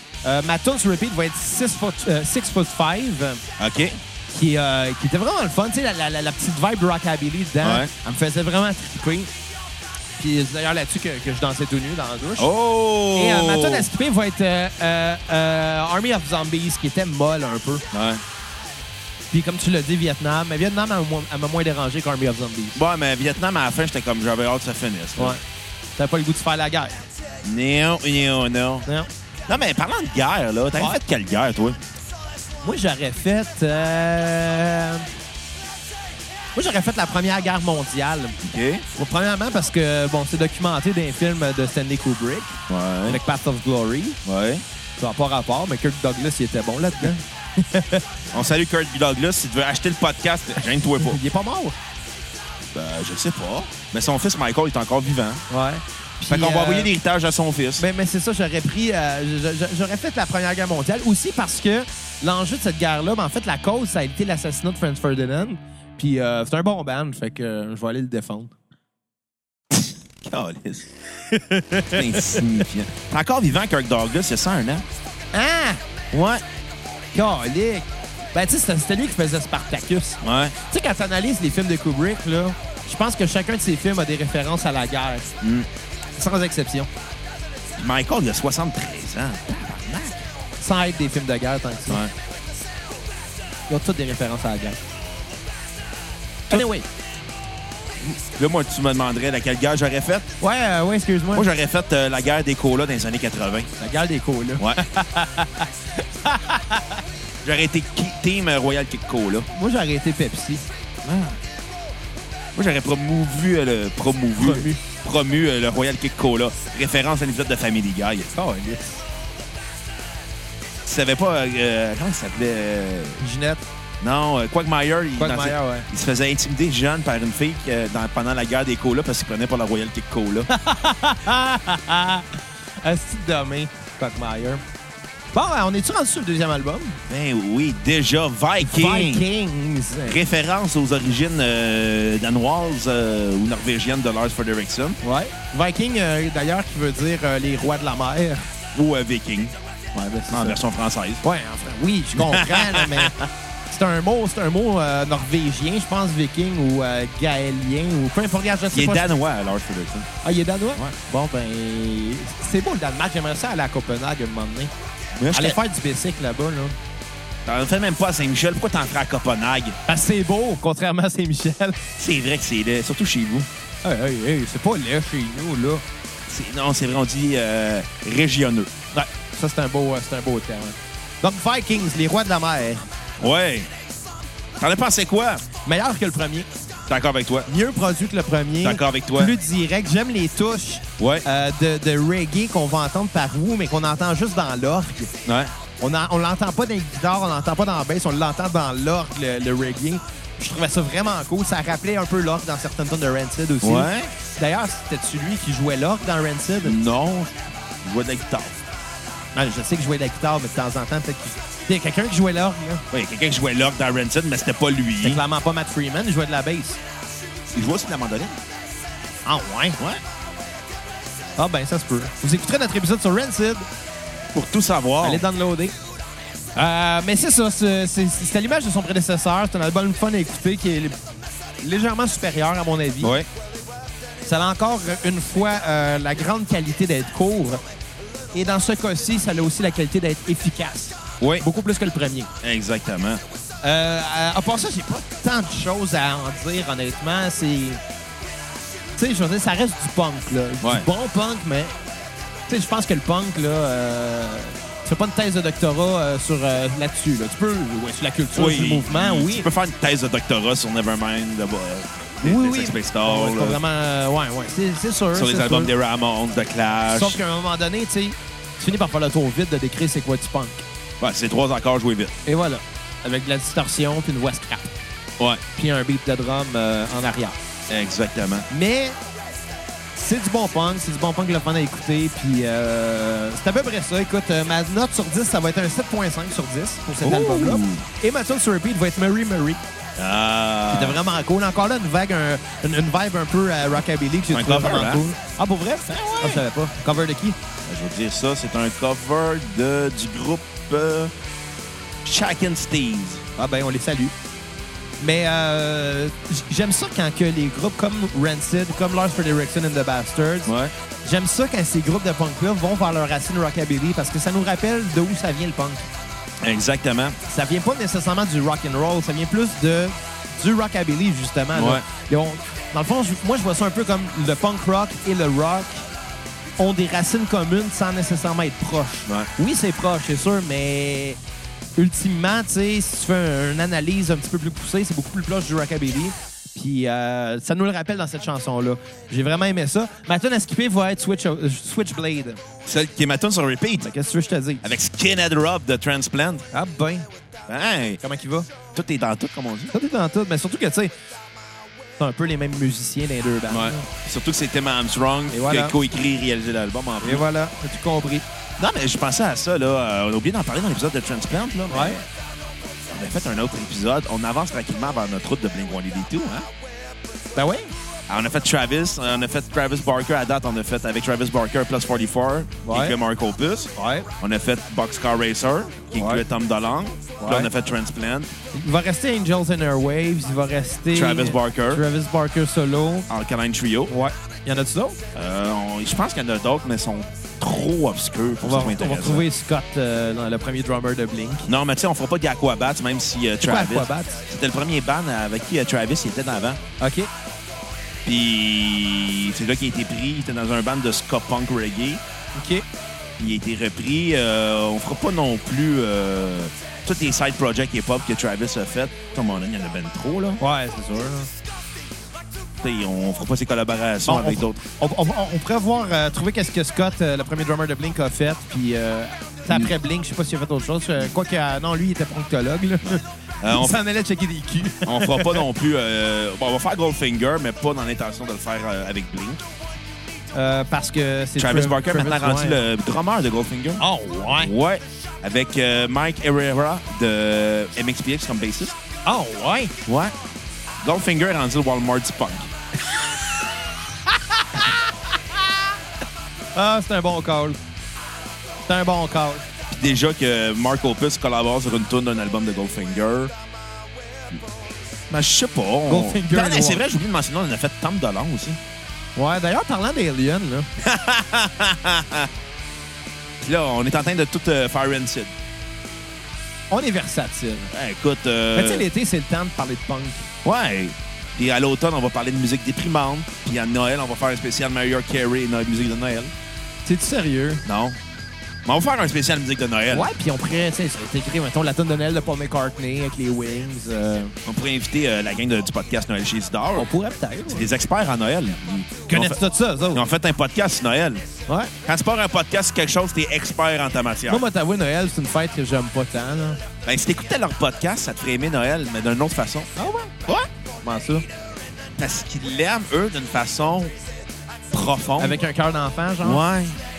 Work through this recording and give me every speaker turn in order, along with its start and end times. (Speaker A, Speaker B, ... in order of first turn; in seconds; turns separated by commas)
Speaker A: 0.2-3.4, Speaker B: 3.6-4.0, Speaker A: 4.3-9.3, Speaker B: 7.6-7.9, Speaker A: 10.2-12.5, Speaker B: 12.4-13.9, Speaker A: 13.1-17.8, Speaker B: 17.9-18.2, Speaker A: 19.3-22.8, Speaker B: 22.7-25.4, Speaker A: 26.0-27.0, Speaker B: 27.4-28.9, Speaker B: 29.5-31.8, Speaker A: 32.6-35.1, Speaker A: 36.5-38.4, Speaker B: 38.4-38.8, Speaker A: 39.0-44.2, Speaker B: 42.7-43.2, Speaker B: 44.2-44.6, Speaker A: 45.0-48.2, Speaker B: 48.3-51.2, Speaker A: 51.0-51.7, Speaker B: 52.7-55.4, Speaker A: 55.5-56.9, Speaker B: 56.2-57.8, Speaker A: 57.8-68.5, Speaker B: 69.7-70.9, Speaker A: 71.3-72.6, Speaker B: 71.9-74.8, Speaker A: 75.3-75.8, Speaker B: 76.1-76.4, Speaker A: 77.1-85.3, Speaker B: 80.2-80.5, Speaker B: 85.4-85.7, Speaker A: 86.2-86.9, Speaker B: 87.8-90.2, Speaker A: 90.6-92.0, Speaker A: 93.7-94.8, Speaker A: 96.5-96.8, Speaker B: 98.3-100.3, Speaker A: 100.4-101.5, Speaker B: 101.3-103.7, Speaker A: 103.8-107.0, Speaker B: 107.4-109.5, Speaker A: 109.5-110.7, Speaker B: 111.0-111.4, Speaker B: 112.5-118.3, Speaker A: 114.4-114.8, Speaker A: 118.3-119.0, Speaker B: 120.8-123.2, Speaker A: 123.2-123.6, Speaker B: 124.0-130.5, Speaker A: 125.2-125.9, Speaker A: 130.5-134.6, Speaker A: 135.3-137.0, Speaker B: 137.1-139.2, Speaker A: 138.6-140.2, Speaker B: 140.1-145.0, Speaker A: 145.0-148.4, Speaker B: 148.7-149.5, Speaker A: 149.9-150.6, Speaker B: 150.3-151.2, Speaker A: 151.2-153.2, Speaker B: 152.2-153.1, Speaker A: 153.7-159.1, Speaker B: 158.7-160.1, Speaker A: 160.2-164.7, Speaker B: 165.2-165.6, Speaker A: 165.3-166.8, Speaker B: 167.4-169.8, Speaker A: 169.9-171.8, Speaker B: 172.0-173.5, Speaker A: 173.8-175.8, Speaker B: 176.3-178.7, Speaker A: 178.9-182.8, Speaker B: 183.2-183.7, Speaker B: 184.6-185.4, Speaker A: 185.6-186.5, Speaker B: 186.9-187.5, Speaker A: 187.5-195.1, Speaker B: 188.6-189.3, Speaker B: 191.0-191.2, Speaker B: 195.2-195.5, Speaker A: 195.8-206.8, Speaker B: 203.6-204.1, Speaker B: 206.6-208.6, Speaker A: 209.3-212.8, Speaker B: 212.9-215.2, Speaker A: 215.0-216.8, Speaker B: 217.5-218.4, Speaker A: 219.2-219.8, Speaker A: 221.4-223.7, Speaker B: 224.3-225.2, Speaker A: 225.0-225.7, Speaker A: 226.6-230.9, Speaker A: 231.6-233.1, Speaker B: 233.0-233.3, Speaker A: 234.2-237.6, Speaker A: 238.3-242.3, Speaker B: 241.2-241.4, Speaker B: 242.4-243.2, Speaker A: 243.6-247.8, Speaker A: 249.0-251.7, Speaker B: 250.6-250.9, Speaker A: 252.5-259.5, Speaker B: 258.3-263.6, Speaker A: 262.2-265.7, Speaker B: 265.1-267.2, Speaker A: 266.9-270.6, Speaker B: 271.0-272.1, Speaker A: 272.2-274.7, Speaker A: 275.5-277.4, Speaker B: 277.7-278.5, Speaker A: 278.5-279.0, Speaker A: 279.9-289.6, Speaker B: 287.0-287.8, Speaker B: 290.0-291.0, Speaker A: 290.7-297.4, Speaker B: 294.3-295.0, Speaker B: 295.9-296.4, Speaker B: 297.6-301.1, Speaker B: 302.0-303.2, Speaker A: 303.4-304.1, Speaker A: 305.0-310.5, Speaker B: 310.4-310.7, Speaker A: 311.0-315.9, Speaker B: 316.4-317.2, Speaker A: 317.3-325.8, Speaker B: 321.5-321.8, Speaker A: 326.6-331.2, Speaker A: 331.8-342.4, Speaker B: 342.6-343.9, Speaker A: 343.8-344.7, Speaker B: 344.6-346.4, Speaker A: 346.5-347.1, Speaker B: 347.5-348.0, Speaker A: 348.0-348.5, Speaker B: 348.7-349.7, Speaker A: 349.7-350.9, Speaker A: 352.0-353.9, Speaker B: 353.5-357.2, Speaker A: 355.3-355.7, Speaker A: 357.0-358.2, Speaker B: 358.6-362.0, Speaker A: 361.7-362.0, Speaker B: 362.9-366.5, Speaker A: 367.4-367.7, Speaker B: 368.1-378.3, Speaker A: 372.6-373.0, Speaker A: 373.8-374.1, Speaker A: 375.9-376.2, Speaker A: 377.2-377.5, Speaker A: 378.5-383.1, Speaker B: 380.9-381.8, Speaker B: 383.1-383.9, Speaker A: 383.9-385.0, Speaker B: 385.1-389.2, Speaker A: 388.4-391.5, Speaker B: 391.4-396.6, Speaker A: 393.4-394.2, Speaker A: 396.8-397.1, Speaker B: 398.0-402.0, Speaker A: 402.3-402.6, Speaker B: 403.2-410.4, Speaker A: 410.4-411.3, Speaker B: 412.6-414.6, Speaker A: 414.1-425.4, Speaker B: 422.8-423.8, Speaker B: 424.8-429.4, Speaker A: 430.3-432.6, Speaker B: 431.4-433.8, Speaker A: 433.8-434.5, Speaker B: 434.4-438.8, Speaker A: 439.1-439.8, Speaker B: 439.9-440.1, Speaker B: 440.8-442.5, Speaker A: 444.1-445.6, Speaker A: 446.5-447.6, Speaker A: 448.7-449.4, Speaker B: 449.7-453.3, Speaker B: 455.1-458.6, Speaker A: 455.9-456.8, Speaker A: 459.1-460.7, Speaker B: 460.8-462.3, Speaker B: 463.4-465.3, Speaker A: 466.7-467.7, Speaker B: 467.7-468.9, Speaker A: 468.5-470.3, Speaker B: 470.4-476.3, Speaker A: 476.9-477.6, Speaker B: 477.6-478.0, Speaker B: 478.6-480.1, Speaker A: 479.9-484.3, Speaker B: 484.4-486.9, Speaker A: 486.8-487.7, Speaker B: 487.5-489.4, Speaker A: 489.1-490.0, Speaker B: 489.9-491.2, Speaker A: 491.5-491.7, Speaker B: 491.8-494.4, Speaker A: 494.3-496.6, Speaker B: 496.8-499.7, Speaker A: 499.8-500.1, Speaker A: 500.8-501.2, Speaker B: 502.0-503.9, Speaker B: 504.7-505.4, Speaker A: 505.2-506.4, Speaker B: 506.2-506.8